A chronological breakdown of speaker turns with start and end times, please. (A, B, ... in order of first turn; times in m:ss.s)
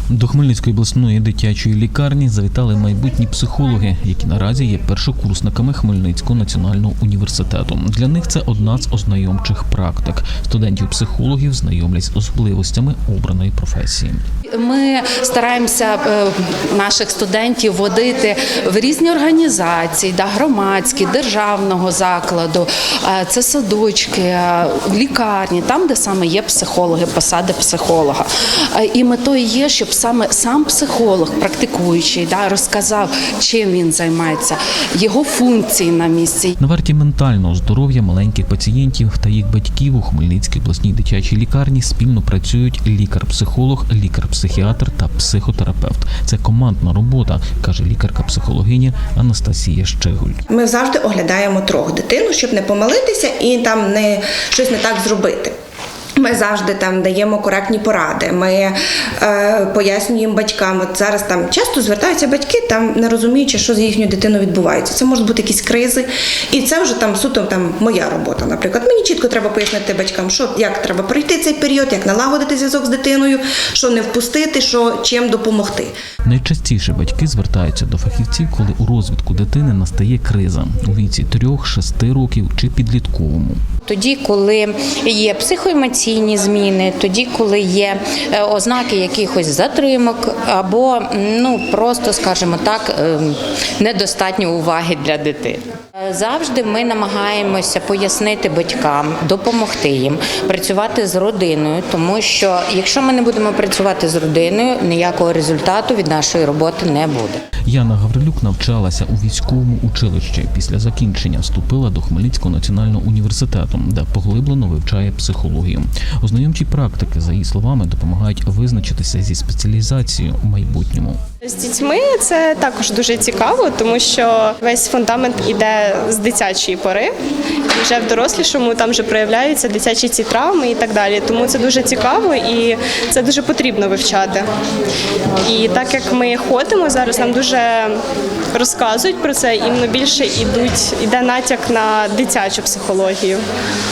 0:00.1-0:14.2 A
0:14.5-0:36.6 B
0:36.6-0:50.4 A
0:50.5-0:55.5 C
0:56.2-1:15.9 C
1:16.2-1:23.6 A
1:23.9-1:47.4 D
1:47.6-2:01.2 A
2:01.4-2:07.1 E
2:07.7-2:14.5 E
2:15.4-2:17.9 E
2:18.5-2:23.4 E